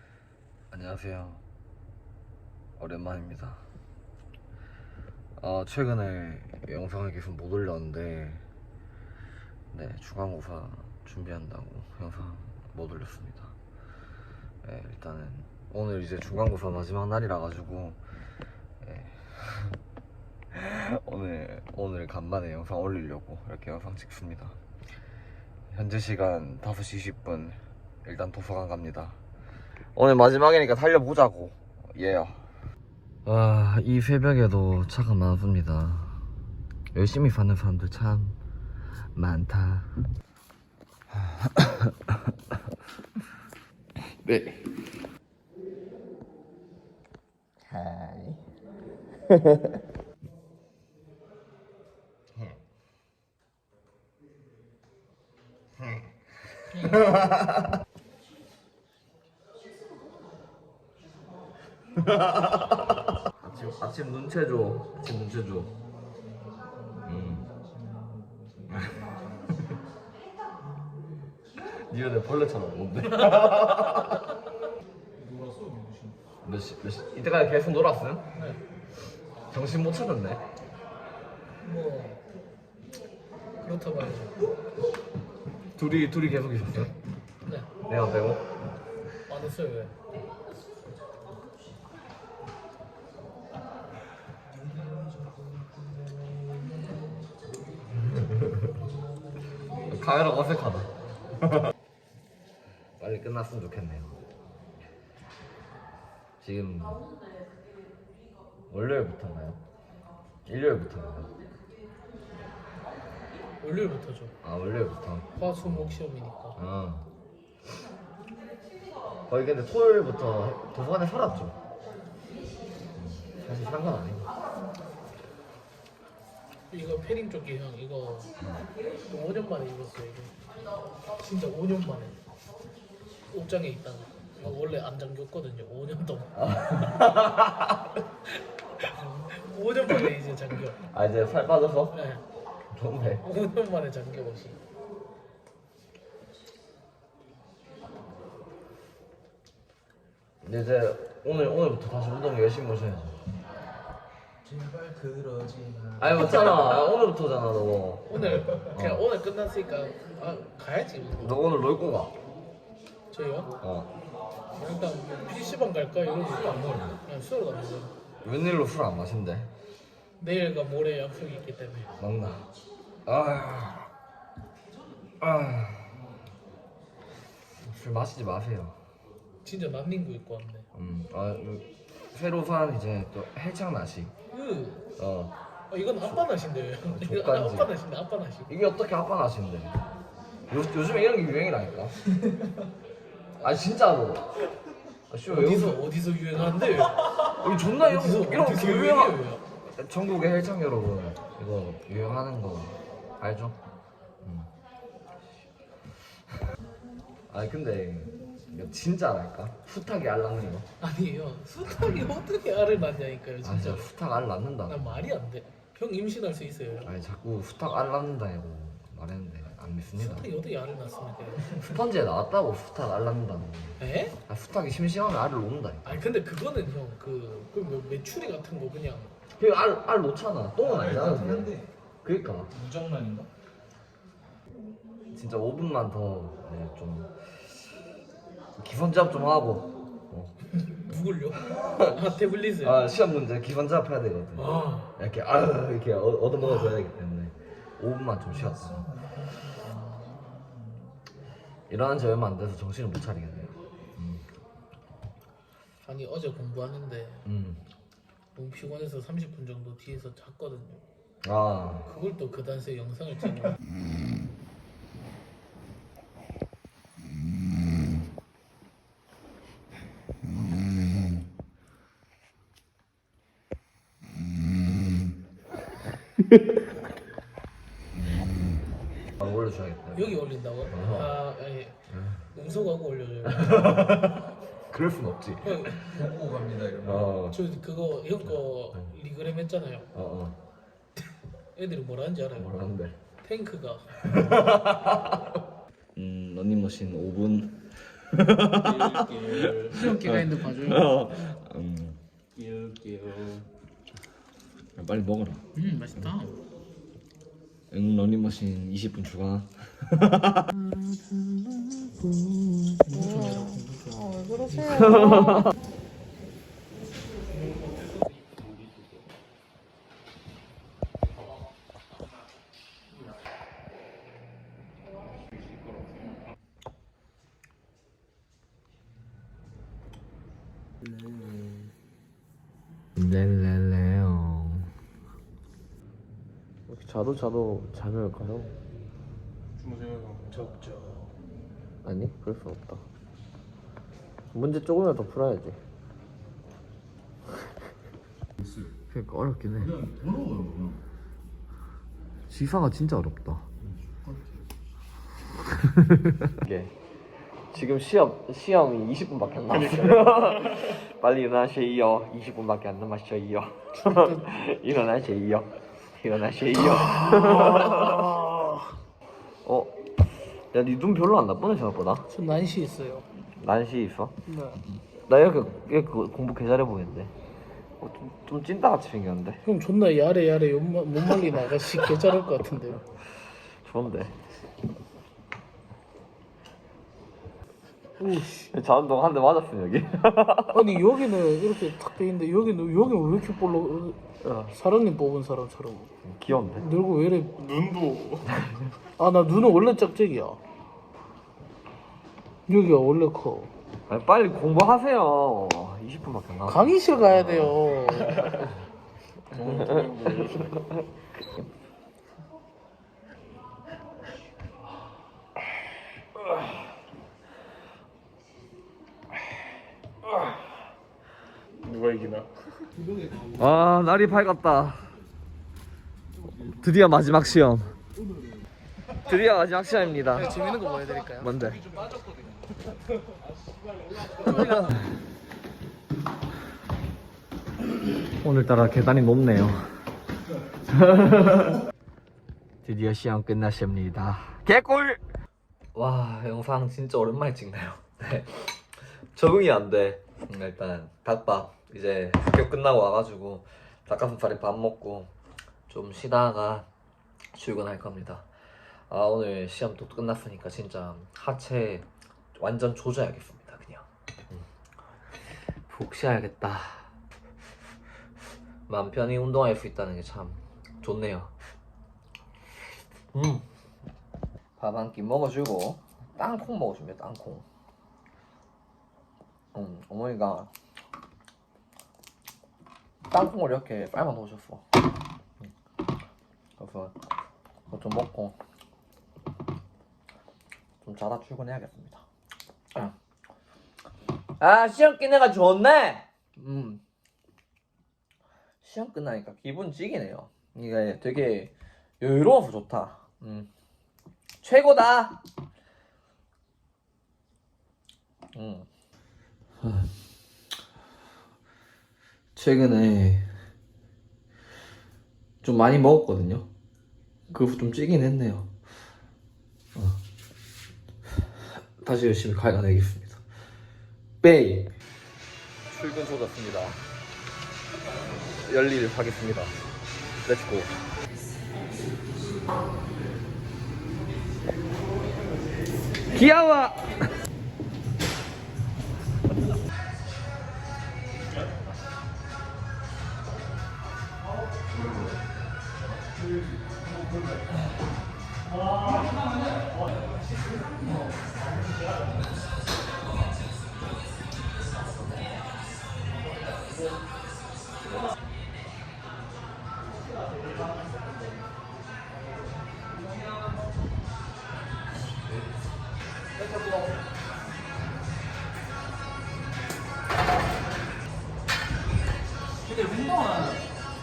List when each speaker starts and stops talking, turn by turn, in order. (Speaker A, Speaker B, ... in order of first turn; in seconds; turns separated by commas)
Speaker A: 0.7-1.4, Speaker A: 2.8-3.6, Speaker A: 5.4-8.4, Speaker A: 9.7-13.5, Speaker A: 14.6-18.0, Speaker A: 18.8-19.8, Speaker A: 20.5-24.6, Speaker A: 25.7-29.2, Speaker A: 29.9-32.4, Speaker A: 33.2-36.3, Speaker A: 36.9-38.4, Speaker A: 39.1-39.9, Speaker A: 41.1-42.3, Speaker A: 44.0-44.9, Speaker A: 47.7-48.4, Speaker A: 49.3-49.8, Speaker A: 52.4-52.6, Speaker A: 55.8-56.1, Speaker A: 56.7-57.7, Speaker A: 62.0-65.7, Speaker B: 66.8-69.4, Speaker A: 67.0-67.5, Speaker A: 68.7-69.8, Speaker A: 71.6-74.3, Speaker B: 75.2-76.1, Speaker A: 76.4-78.2, Speaker C: 78.3-78.6, Speaker A: 79.5-80.4, Speaker C: 81.6-82.2, Speaker C: 83.6-84.4, Speaker A: 85.8-87.0, Speaker C: 87.4-87.7, Speaker A: 87.9-88.5, Speaker C: 89.2-89.9, Speaker A: 98.0-98.6, Speaker A: 99.8-101.7, Speaker A: 103.0-104.2, Speaker A: 106.4-107.0, Speaker A: 108.7-109.6, Speaker A: 110.5-111.3, Speaker C: 113.6-114.3, Speaker A: 114.4-116.0, Speaker C: 115.3-116.6, Speaker A: 116.5-117.1, Speaker A: 119.3-121.6, Speaker A: 123.0-124.3, Speaker C: 126.7-128.3, Speaker C: 129.1-130.4, Speaker C: 131.1-132.2, Speaker C: 133.3-137.0, Speaker A: 136.3-137.8, Speaker C: 138.8-140.8, Speaker A: 140.8-141.9, Speaker C: 141.9-142.2, Speaker A: 142.7-143.2, Speaker C: 143.2-144.6, Speaker A: 150.4-153.2, Speaker B: 154.4-156.4, Speaker A: 156.0-159.1, Speaker C: 158.1-161.4, Speaker A: 161.2-162.2, Speaker C: 163.1-163.6, Speaker A: 163.6-163.9, Speaker C: 164.6-167.9, Speaker A: 166.7-166.9, Speaker A: 168.2-169.5, Speaker C: 170.2-171.9, Speaker A: 172.0-172.5, Speaker A: 173.1-173.9, Speaker A: 175.2-176.0, Speaker A: 177.6-178.8, Speaker C: 179.4-180.7, Speaker A: 180.7-184.1, Speaker C: 184.3-184.8, Speaker A: 185.0-185.3, Speaker C: 185.7-188.5, Speaker A: 186.8-187.7, Speaker A: 188.5-189.8, Speaker A: 190.5-192.0, Speaker A: 193.4-194.3, Speaker A: 195.1-203.6, Speaker C: 195.3-199.4, Speaker A: 204.2-204.5, Speaker A: 207.3-210.7, Speaker C: 210.8-213.9, Speaker A: 213.4-215.0, Speaker C: 214.7-216.9, Speaker A: 216.8-220.3, Speaker C: 219.9-221.6, Speaker A: 221.6-226.0, Speaker C: 223.8-224.2, Speaker C: 225.8-229.1, Speaker A: 229.4-232.6, Speaker B: 230.7-231.7, Speaker B: 232.5-233.3, Speaker A: 235.1-237.6, Speaker A: 238.6-240.3, Speaker C: 240.6-242.9, Speaker A: 241.5-248.9, Speaker C: 244.3-244.9, Speaker B: 248.4-250.8, Speaker A: 251.7-254.2, Speaker C: 255.8-257.3, Speaker A: 257.2-257.6, Speaker C: 258.3-260.8, Speaker A: 261.2-261.9, Speaker C: 261.8-263.6, Speaker A: 279.2-281.1, Speaker C: 279.9-281.8, Speaker A: 281.9-282.2, Speaker C: 282.3-284.1, Speaker A: 283.2-286.1, Speaker C: 285.4-286.0, Speaker B: 285.8-287.0, Speaker A: 286.8-287.4, Speaker C: 287.3-289.9, Speaker A: 289.9-290.4, Speaker C: 291.5-292.6, Speaker A: 292.4-293.0, Speaker C: 293.2-294.1, Speaker A: 294.0-295.3, Speaker A: 295.9-302.0, Speaker B: 298.4-299.9, Speaker C: 299.6-300.9, Speaker B: 302.4-303.5, Speaker A: 304.8-305.4, Speaker C: 305.5-306.4, Speaker A: 307.7-310.5, Speaker C: 310.7-315.4, Speaker A: 314.7-315.5, Speaker B: 330.8-331.7, Speaker A: 332.9-334.7, Speaker A: 336.7-338.5, Speaker B: 339.6-340.3, Speaker C: 340.3-341.1, Speaker A: 341.8-342.8, Speaker A: 344.3-345.6, Speaker A: 348.9-349.8, Speaker B: 349.8-350.8, Speaker A: 352.3-353.5, Speaker A: 355.5-356.7, Speaker A: 357.5-368.2, Speaker C: 363.8-364.3, Speaker C: 366.6-368.7, Speaker A: 369.4-369.8, Speaker A: 370.5-372.1, Speaker C: 372.1-373.1, Speaker A: 373.3-374.1, Speaker C: 374.3-374.6, Speaker A: 375.1-377.1, Speaker A: 377.8-379.4, Speaker C: 379.4-382.8, Speaker A: 383.2-384.2, Speaker C: 388.0-388.5, Speaker A: 388.1-390.9, Speaker C: 390.5-395.9, Speaker A: 394.2-394.5, Speaker A: 396.0-396.6, Speaker C: 396.6-397.9, Speaker B: 397.6-398.2, Speaker A: 398.2-398.7, Speaker C: 399.0-400.4, Speaker C: 402.5-403.5, Speaker A: 403.9-408.5, Speaker C: 406.5-408.4, Speaker B: 409.3-410.5, Speaker A: 409.3-411.4, Speaker B: 421.6-422.3, Speaker A: 423.3-425.0, Speaker A: 426.4-427.8, Speaker A: 429.0-430.4, Speaker C: 430.1-431.5, Speaker A: 431.2-431.7, Speaker A: 434.1-434.9, Speaker C: 434.3-434.5, Speaker A: 438.2-439.9, Speaker A: 440.6-441.6, Speaker A: 442.6-445.0, Speaker A: 445.7-455.1, Speaker A: 455.7-456.7, Speaker A: 457.3-464.4, Speaker A: 465.6-466.9, Speaker A: 468.7-471.4, Speaker A: 473.1-473.4, Speaker A: 474.6-477.4, Speaker A: 479.5-480.5, Speaker A: 483.1-484.8, Speaker A: 486.6-486.9, Speaker A: 487.7-488.4, Speaker A: 490.8-492.1, Speaker A: 494.4-496.8, Speaker A: 498.6-503.5, Speaker A: 504.4-505.2, Speaker A: 508.3-508.7, Speaker A: 509.6-509.9, Speaker A: 512.3-513.3, Speaker A: 515.4-516.5, Speaker A: 517.3-518.5, Speaker A: 519.7-520.0, Speaker A: 521.3-523.2, Speaker A: 524.2-524.7, Speaker A: 525.7-526.8, Speaker A: 528.3-529.6, Speaker A: 530.2-530.8, Speaker A: 536.1-537.0, Speaker B: 572.7-573.6